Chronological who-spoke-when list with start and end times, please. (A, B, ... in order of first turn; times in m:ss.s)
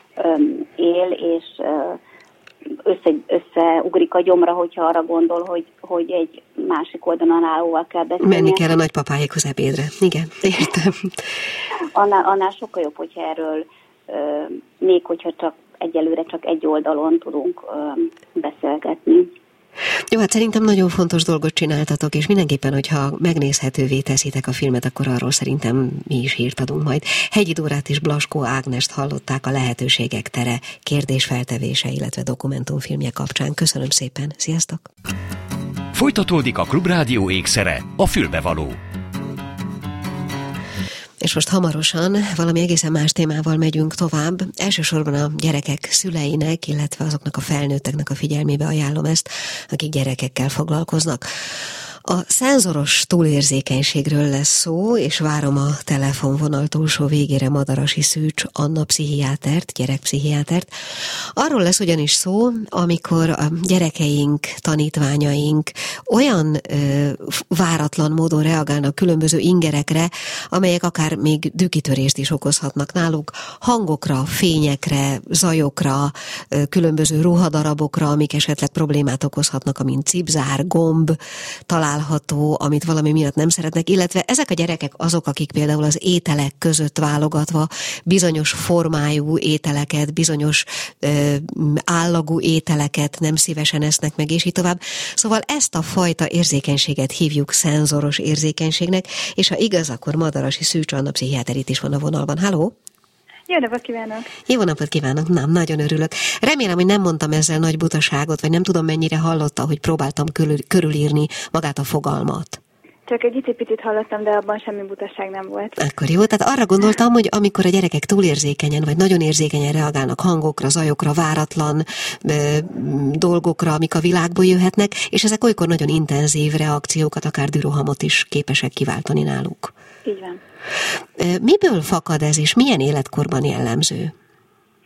0:00.2-0:02.0 A
0:02.8-0:08.7 A
0:08.2-0:11.2 B
0:11.9-0:19.3 A
0:20.1-0:34.9 B
0:35.9-0:38.8 C
0:41.2-0:51.3 B
0:52.0-1:21.2 B
1:21.7-1:42.8 B
1:43.5-1:44.3 D
1:44.5-1:52.6 B
1:53.1-1:55.8 D
1:55.8-2:09.7 B
2:10.0-2:10.4 D
2:11.2-2:14.1 B